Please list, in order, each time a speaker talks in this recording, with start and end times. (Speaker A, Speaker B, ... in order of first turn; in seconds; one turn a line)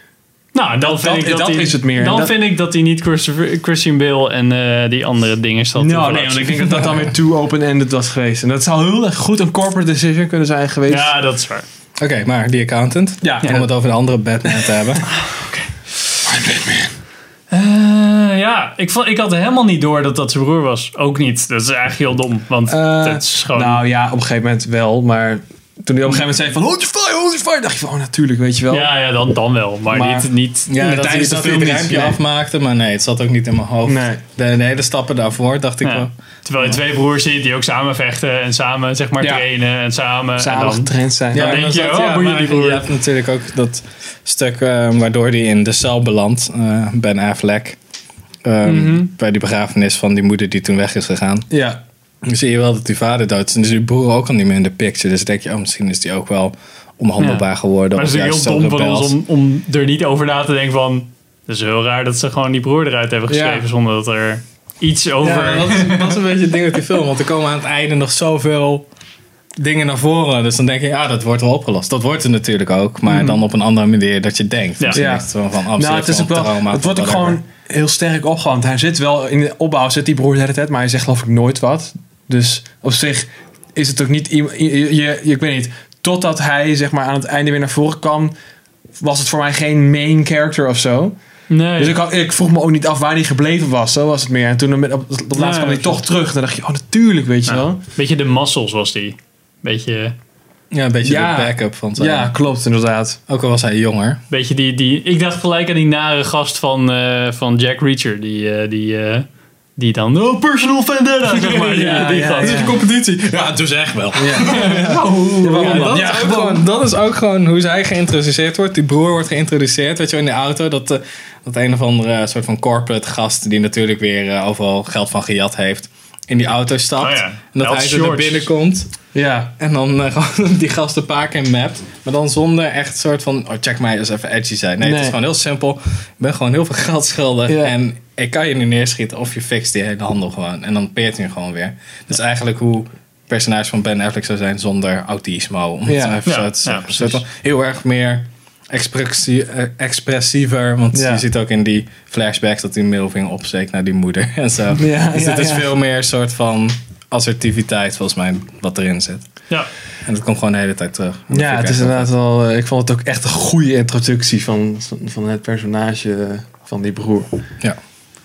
Speaker A: 0.5-7.0
Speaker B: 0.8-2.5
Speaker B: 5.8-11.2
Speaker A: 10.9-11.7
Speaker C: 12.0-15.1
Speaker B: 13.2-13.7
Speaker B: 14.4-14.7
Speaker A: 15.1-15.7
Speaker B: 16.3-16.9
Speaker A: 17.5-23.9
Speaker B: 22.7-28.9
Speaker A: 28.7-30.8
Speaker B: 29.9-32.2
Speaker C: 30.7-36.1
Speaker B: 33.9-34.2
Speaker A: 35.8-42.9
Speaker B: 39.2-39.5
Speaker B: 40.4-41.7
Speaker C: 41.3-47.8
Speaker C: 48.5-51.5
Speaker A: 48.6-49.1
Speaker B: 51.5-51.8
Speaker C: 52.2-59.2
Speaker A: 57.2-66.2
Speaker B: 63.3-63.7
Speaker B: 65.2-65.6
Speaker C: 65.2-68.9
Speaker C: 69.6-77.4
Speaker B: 73.1-73.4
Speaker A: 74.8-75.1
Speaker B: 74.9-88.3
Speaker B: 89.0-91.2
Speaker A: 91.5-92.0
Speaker B: 91.8-97.8
Speaker A: 95.3-96.0
Speaker A: 97.4-100.2
Speaker C: 100.7-102.3
Speaker B: 101.0-103.2
Speaker C: 103.3-104.2
Speaker A: 104.3-109.3
Speaker A: 109.8-112.7
Speaker C: 111.4-111.9
Speaker B: 111.6-112.8
Speaker C: 112.4-128.9
Speaker B: 114.1-116.7
Speaker A: 114.4-116.2
Speaker A: 127.0-128.5
Speaker B: 129.1-129.5
Speaker C: 129.6-159.2
Speaker B: 134.8-135.2
Speaker B: 137.5-137.8
Speaker B: 145.9-146.2
Speaker A: 146.2-147.2
Speaker B: 150.9-151.2
Speaker B: 154.8-155.7
Speaker C: 160.1-162.1
Speaker B: 161.3-167.3